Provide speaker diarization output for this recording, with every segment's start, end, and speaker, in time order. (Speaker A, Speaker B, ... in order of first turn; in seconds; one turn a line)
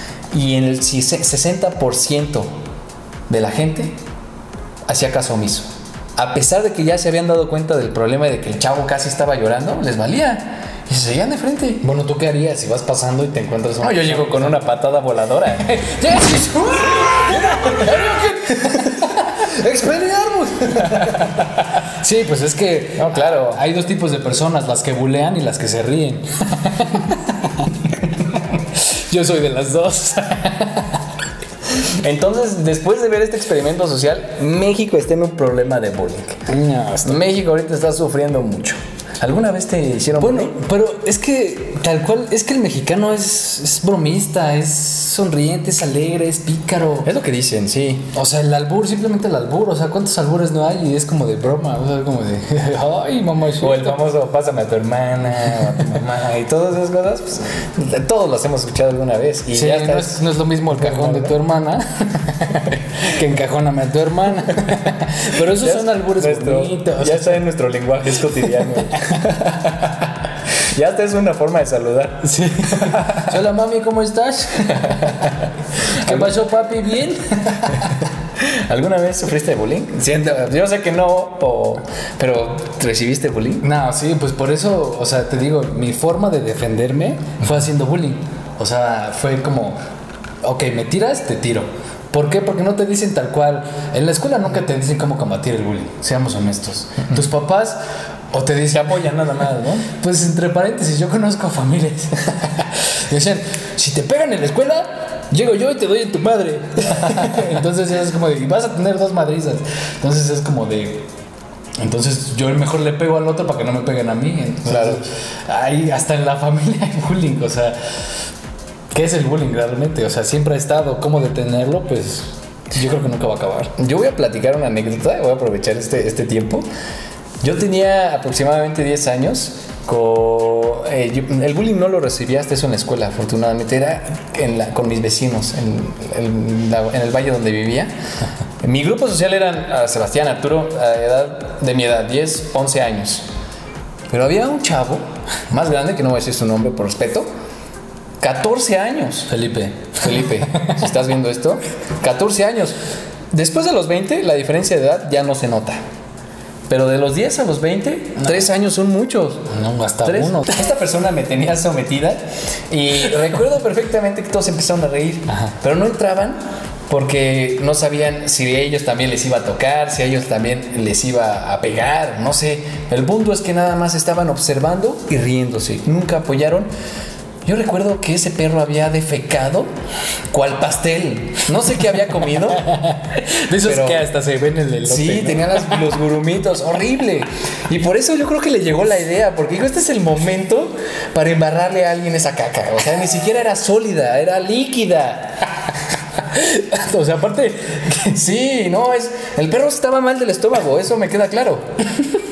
Speaker A: 0.3-2.5
Speaker A: 3.3-4.0
Speaker A: 4.9-11.8
Speaker B: 11.8-14.6
Speaker A: 13.8-15.7
Speaker B: 15.6-31.1
Speaker A: 17.3-17.9
Speaker A: 20.8-21.5
Speaker A: 23.0-23.6
Speaker A: 31.8-36.4
Speaker B: 36.5-37.2
Speaker A: 37.0-40.6
Speaker B: 40.2-47.1
Speaker A: 47.0-48.1
Speaker B: 48.1-54.0
Speaker A: 53.6-61.4
Speaker B: 55.5-55.8
Speaker B: 59.5-67.4
Speaker A: 65.6-73.3
Speaker B: 72.2-78.0
Speaker A: 74.8-76.3
Speaker A: 78.4-83.7
Speaker B: 83.6-89.8
Speaker B: 90.4-97.8
Speaker B: 98.3-99.1
Speaker A: 98.7-99.9
Speaker B: 99.8-111.1
Speaker B: 111.8-117.8
Speaker A: 114.7-115.0
Speaker B: 118.9-123.7
Speaker A: 123.8-126.7
Speaker A: 127.4-137.9
Speaker A: 138.6-143.2
Speaker A: 144.1-147.3
Speaker A: 148.2-149.3
Speaker B: 149.3-150.7
Speaker A: 150.0-152.8
Speaker A: 153.3-155.8
Speaker A: 156.7-159.5
Speaker B: 158.2-158.5
Speaker B: 159.5-160.6
Speaker A: 160.0-166.4
Speaker A: 166.9-176.7
Speaker A: 177.4-179.7
Speaker A: 180.3-182.7
Speaker B: 182.5-185.9
Speaker A: 183.6-184.0
Speaker A: 184.9-195.4
Speaker B: 196.3-198.2
Speaker A: 198.1-201.7